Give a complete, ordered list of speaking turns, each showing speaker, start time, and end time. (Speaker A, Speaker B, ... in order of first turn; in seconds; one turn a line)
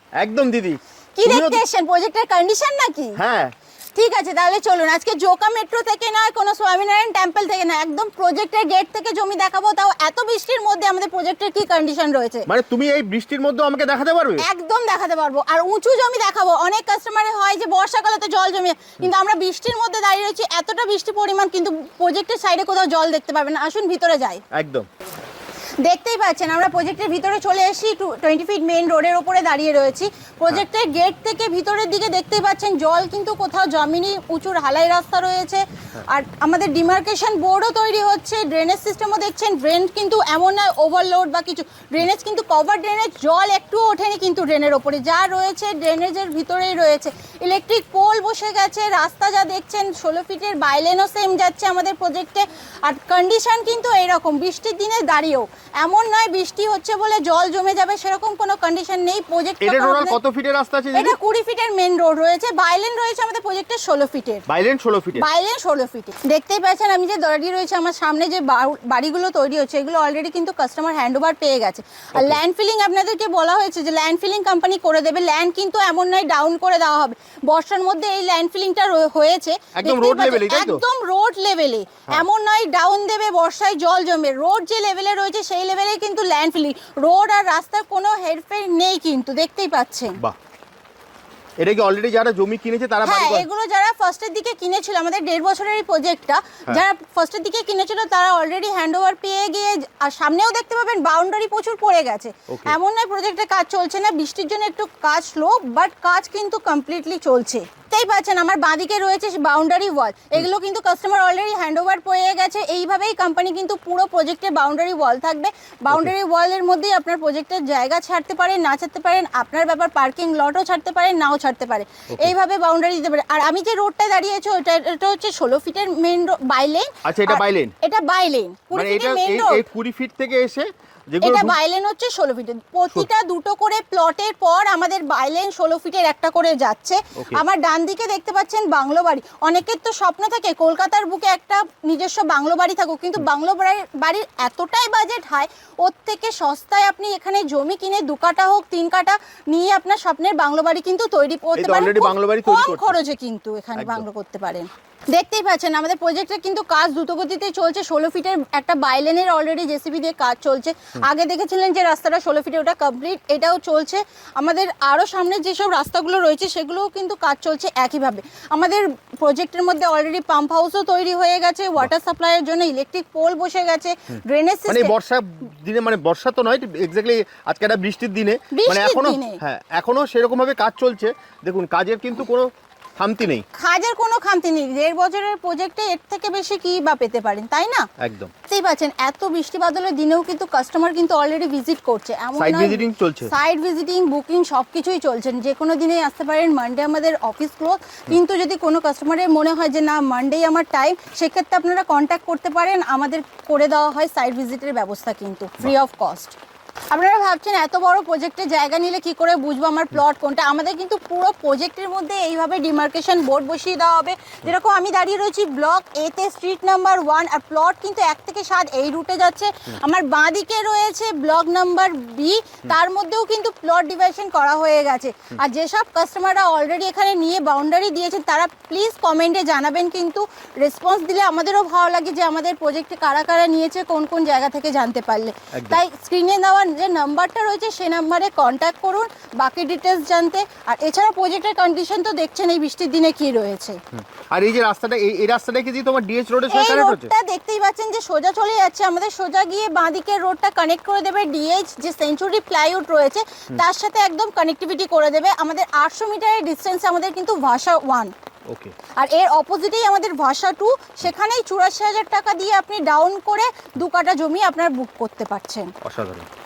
Speaker A: 0.2-1.6
Speaker B: 1.1-3.2
Speaker A: 3.2-3.5
Speaker B: 3.9-12.5
Speaker A: 12.5-14.4
Speaker B: 14.4-24.4
Speaker A: 24.5-24.9
Speaker B: 25.8-60.2
Speaker A: 59.6-61.2
Speaker B: 60.9-64.4
Speaker A: 64.5-65.2
Speaker B: 65.2-90.2
Speaker A: 72.1-72.4
Speaker A: 79.8-80.8
Speaker A: 91.6-93.5
Speaker B: 93.0-129.6
Speaker A: 102.5-102.8
Speaker A: 127.0-127.7
Speaker A: 128.7-131.6
Speaker B: 131.2-174.9
Speaker A: 137.2-137.4
Speaker A: 151.6-153.0
Speaker A: 153.8-154.1
Speaker A: 174.1-183.4
Speaker B: 178.5-179.4
Speaker B: 183.5-187.9
Speaker A: 188.0-188.3
Speaker B: 188.5-206.3
Speaker A: 192.4-193.3
Speaker B: 206.9-243.8
Speaker A: 235.5-235.8
Speaker A: 244.2-247.1
Speaker B: 246.5-258.1
Speaker A: 258.5-258.7
Speaker B: 259.0-265.7
Speaker A: 265.8-266.3